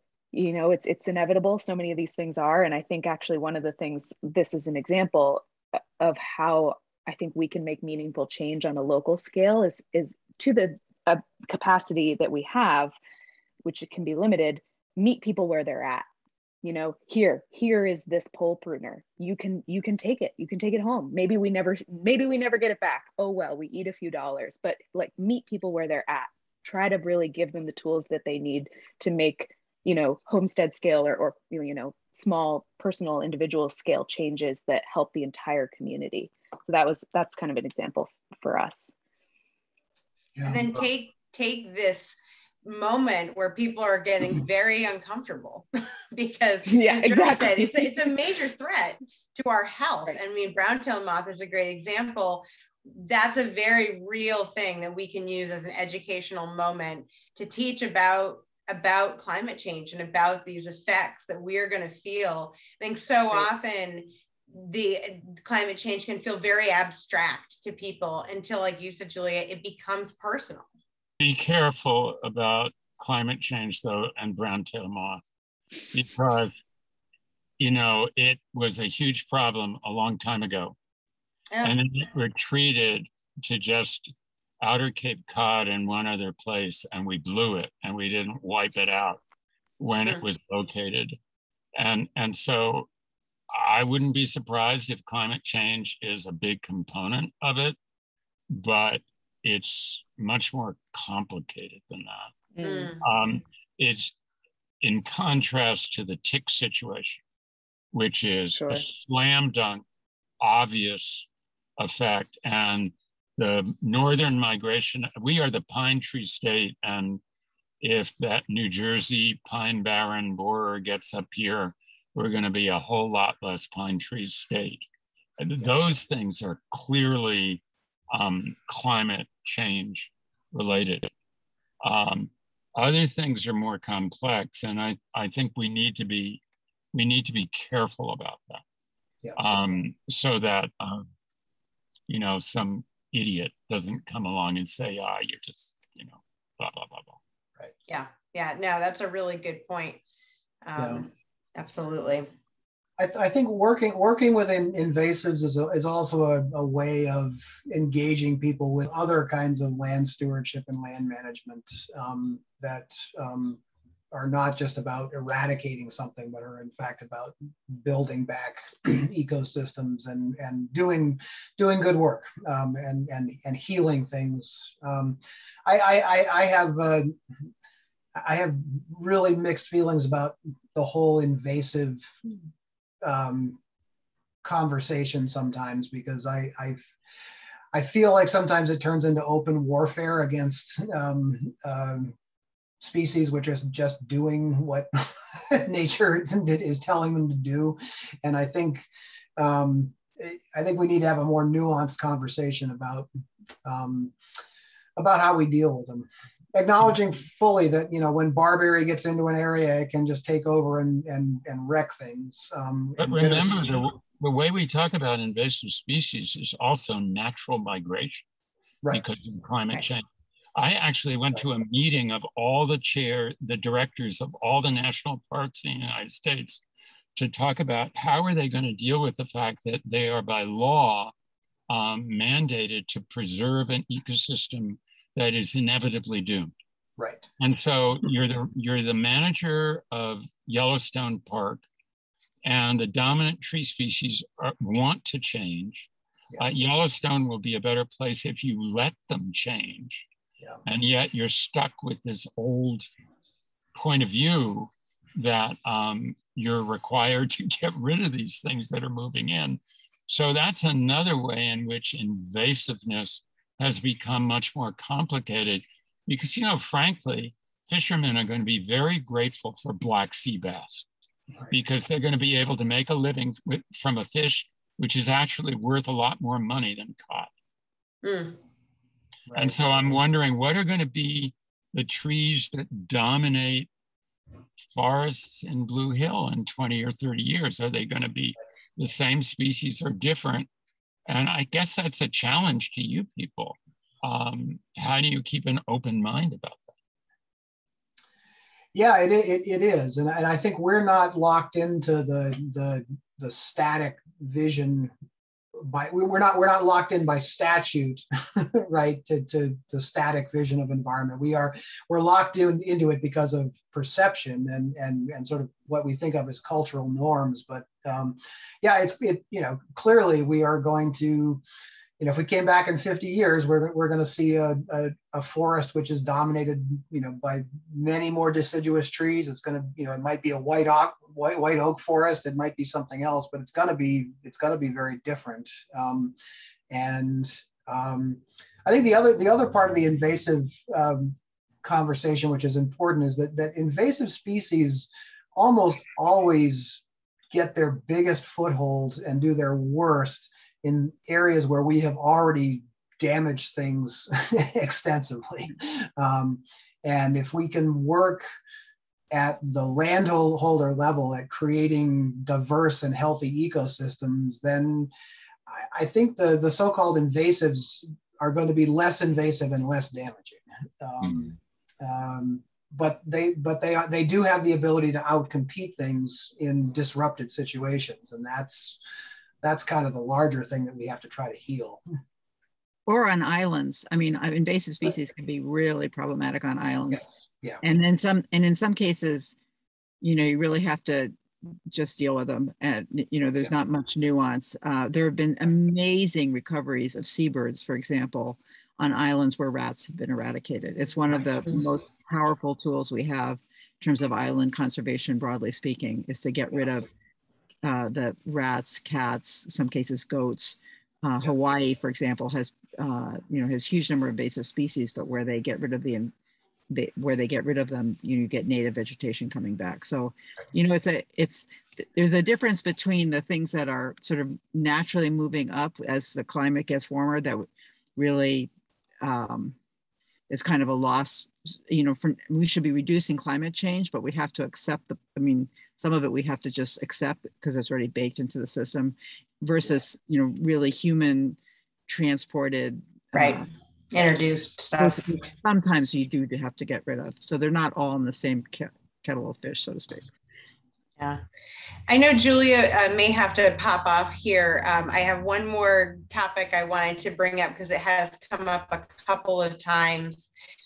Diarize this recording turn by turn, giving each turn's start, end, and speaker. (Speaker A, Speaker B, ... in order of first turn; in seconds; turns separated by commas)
Speaker A: 0.3-5.5, Speaker A: 6.0-12.9, Speaker A: 13.6-16.1, Speaker A: 16.6-38.9, Speaker B: 40.4-40.8, Speaker C: 40.4-70.7, Speaker A: 46.6-48.1, Speaker D: 71.2-75.2, Speaker D: 75.9-76.6, Speaker D: 77.6-80.8, Speaker D: 81.6-89.2, Speaker D: 89.8-91.2, Speaker D: 91.7-92.9, Speaker D: 93.5-97.8, Speaker D: 98.5-102.3, Speaker A: 102.6-103.0, Speaker C: 102.6-103.0, Speaker D: 103.0-104.1, Speaker D: 104.8-107.2, Speaker D: 107.9-109.8, Speaker A: 108.5-108.8, Speaker D: 110.4-111.3, Speaker D: 111.8-117.2, Speaker D: 117.8-124.8, Speaker D: 125.4-131.1, Speaker D: 131.8-136.4, Speaker D: 136.9-138.6, Speaker D: 139.3-141.1, Speaker D: 142.1-147.2, Speaker C: 147.9-150.0, Speaker C: 150.6-152.3, Speaker B: 150.8-151.1, Speaker B: 153.0-163.6, Speaker B: 164.1-177.1, Speaker B: 178.2-182.1, Speaker B: 183.0-183.6, Speaker B: 184.4-186.9, Speaker B: 187.7-192.1, Speaker B: 192.8-198.8, Speaker B: 199.4-203.1, Speaker B: 203.6-204.1, Speaker B: 205.0-213.7, Speaker D: 213.0-218.2, Speaker D: 218.9-226.6, Speaker D: 227.1-231.1, Speaker D: 231.7-236.5, Speaker B: 237.0-237.2, Speaker D: 237.4-241.6, Speaker D: 242.4-250.1, Speaker D: 250.6-252.9, Speaker D: 253.7-270.8, Speaker D: 271.5-277.3, Speaker C: 278.0-278.4, Speaker D: 279.3-283.7, Speaker D: 284.7-290.5, Speaker D: 291.1-296.7, Speaker B: 298.7-304.9, Speaker B: 305.6-321.4, Speaker B: 322.0-336.1, Speaker B: 336.7-358.2, Speaker B: 359.1-364.9, Speaker B: 365.5-378.8, Speaker B: 379.4-381.8, Speaker E: 382.9-387.1, Speaker B: 386.9-387.6, Speaker E: 387.6-389.3, Speaker E: 390.0-391.1, Speaker E: 391.7-406.9, Speaker E: 407.6-416.1, Speaker E: 416.7-428.5, Speaker E: 429.0-429.5, Speaker E: 430.3-443.5, Speaker C: 443.1-445.1, Speaker E: 444.8-450.1, Speaker C: 451.9-460.3